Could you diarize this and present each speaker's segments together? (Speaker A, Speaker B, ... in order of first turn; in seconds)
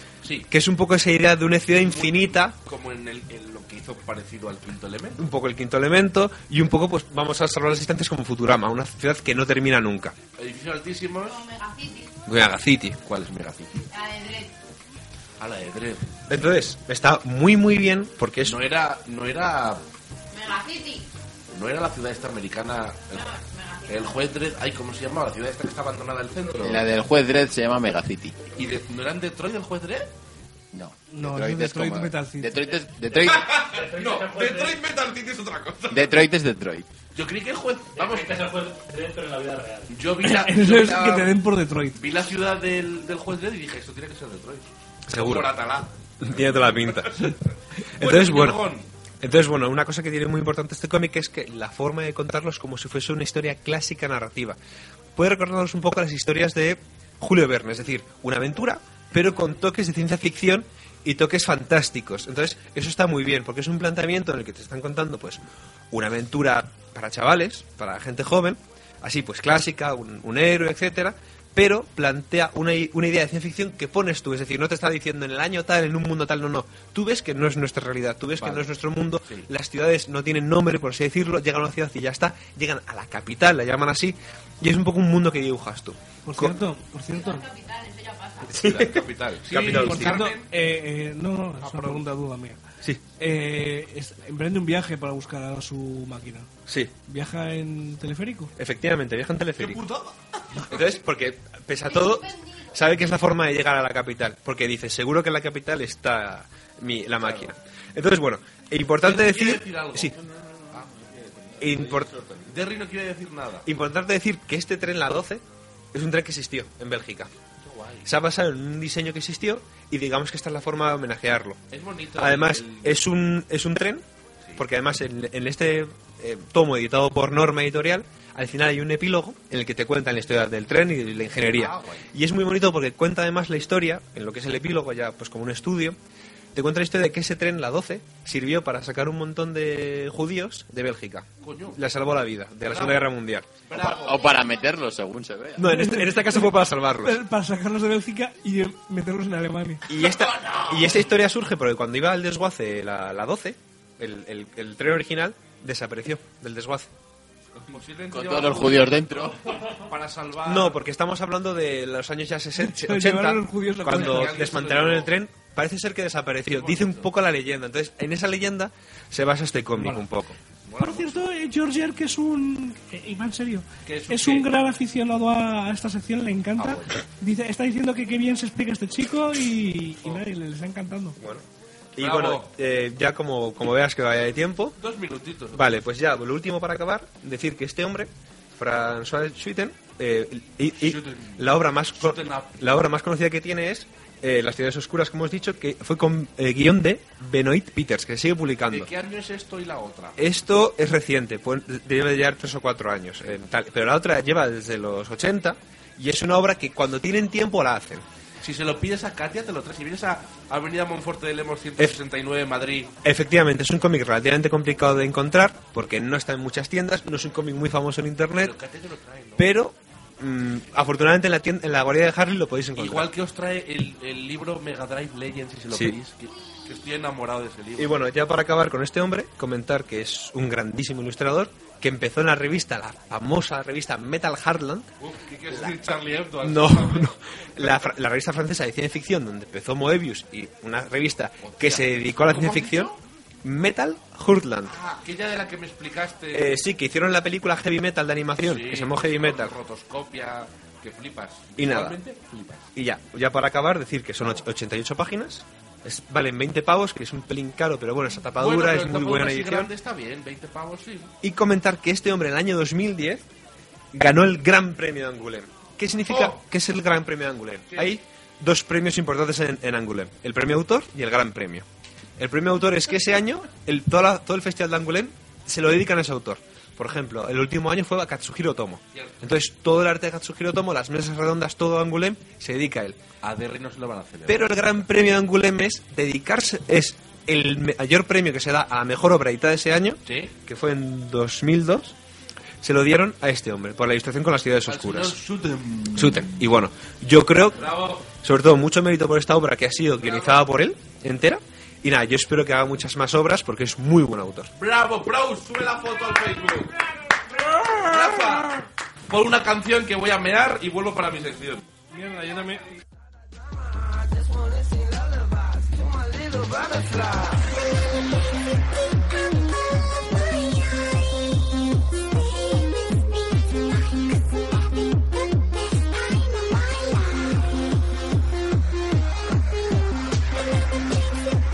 Speaker A: 0.5-2.5, 5.2-10.1, 12.3-13.0, 16.3-18.6, 45.1-45.5, 46.2-47.3, 48.0-48.6, 49.2-54.6, 55.1-86.5, 88.5-90.3, 96.7-96.9, 98.6-99.8, 100.7-110.2, 111.6-112.1, 113.6-117.3, 118.0-121.6, 122.2-124.0, 124.6-136.0, 136.5-143.6, 145.6-147.2, 149.9-156.9, 160.4-170.3, 181.9-184.8, 185.5-198.9, 200.2-208.0, 213.0-218.5, 219.4-223.1, 227.8-234.9, 236.4-242.9, 243.4-244.7, 246.3-249.5, 251.6-252.0, 252.7-259.7, 261.2-263.2, 263.9-271.6, 272.2-283.0, 284.3-291.9, 292.6-295.2, 295.9-304.5
Speaker B: 1.7-5.2, 10.4-11.4, 13.0-13.9, 15.4-16.1, 18.4-19.8, 21.5-23.3, 23.9-26.9, 28.5-30.1, 33.2-36.2, 37.1-38.3, 39.9-41.3, 41.9-47.4, 48.0-48.9, 78.4-78.7, 88.5-90.5, 91.6-92.0, 99.6-101.0, 107.2-107.5, 109.0-110.2, 110.7-113.7, 117.6-118.1, 121.7-123.0, 131.4-132.0, 141.4-141.8, 142.6-143.1, 143.7-144.3, 149.9-151.2, 157.6-160.8, 163.8-165.2, 166.5-167.1, 170.7-171.2, 173.8-174.5, 176.6-176.9, 182.0-182.5, 184.8-185.7, 190.8-192.6, 198.7-200.4, 208.4-212.9, 218.4-219.5, 222.8-227.9, 235.0-237.8, 241.4-243.0, 244.6-246.6, 248.4-252.7, 258.4-261.1, 266.1-266.4, 267.7-268.0, 283.2-284.9, 290.1-290.3, 294.6-296.4, 297.5-298.1, 300.0-300.4, 304.6-306.7, 307.6-311.6
Speaker C: 11.3-12.1, 13.9-14.5, 20.3-21.1, 23.1-24.2, 87.1-88.5, 102.3-102.6, 144.3-144.7
Speaker D: 26.6-28.4, 30.7-33.5, 35.9-36.9, 143.8-145.7, 158.1-159.5
Speaker E: 31.1-32.6, 40.2-42.0, 86.2-87.5, 89.8-92.6, 93.2-96.5, 97.0-98.5, 145.7-146.5, 147.0-149.9, 162.6-164.4, 169.8-170.0, 170.8-181.2, 311.9-312.7
Speaker F: 33.6-34.8, 38.0-39.9